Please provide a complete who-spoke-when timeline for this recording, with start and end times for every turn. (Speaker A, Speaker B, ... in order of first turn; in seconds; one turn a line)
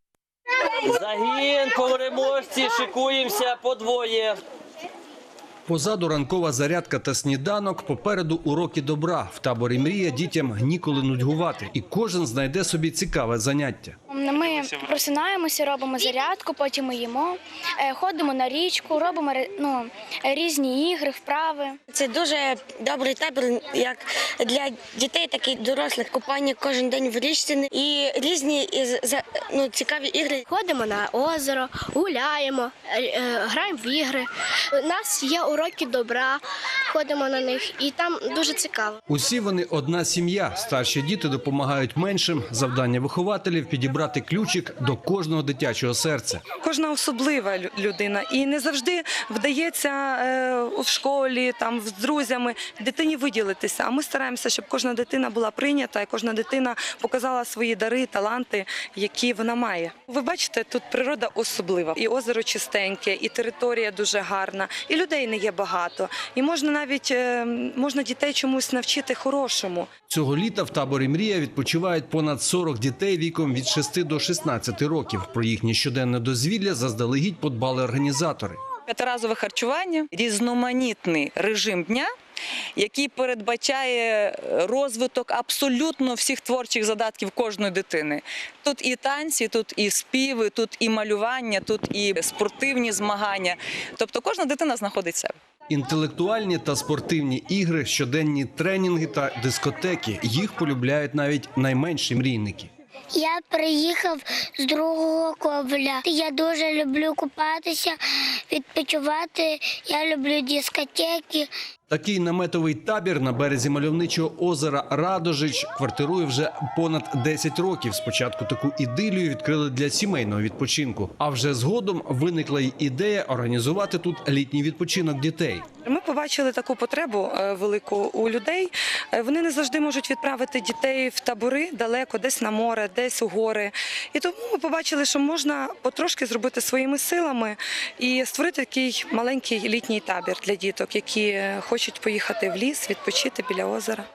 Speaker A: 0.8-4.4
Speaker B: 5.7-13.9
Speaker C: 14.1-21.7
Speaker D: 21.9-30.4
Speaker E: 30.5-39.0
Speaker B: 39.1-46.4
Speaker F: 46.6-69.9
Speaker B: 70.1-78.6
Speaker G: 78.9-82.1
Speaker G: 82.8-95.3
Speaker B: 95.7-102.7
Speaker H: 103.1-108.0
Speaker H: 108.5-111.5
Speaker B: 111.9-125.6
Speaker F: 125.8-144.1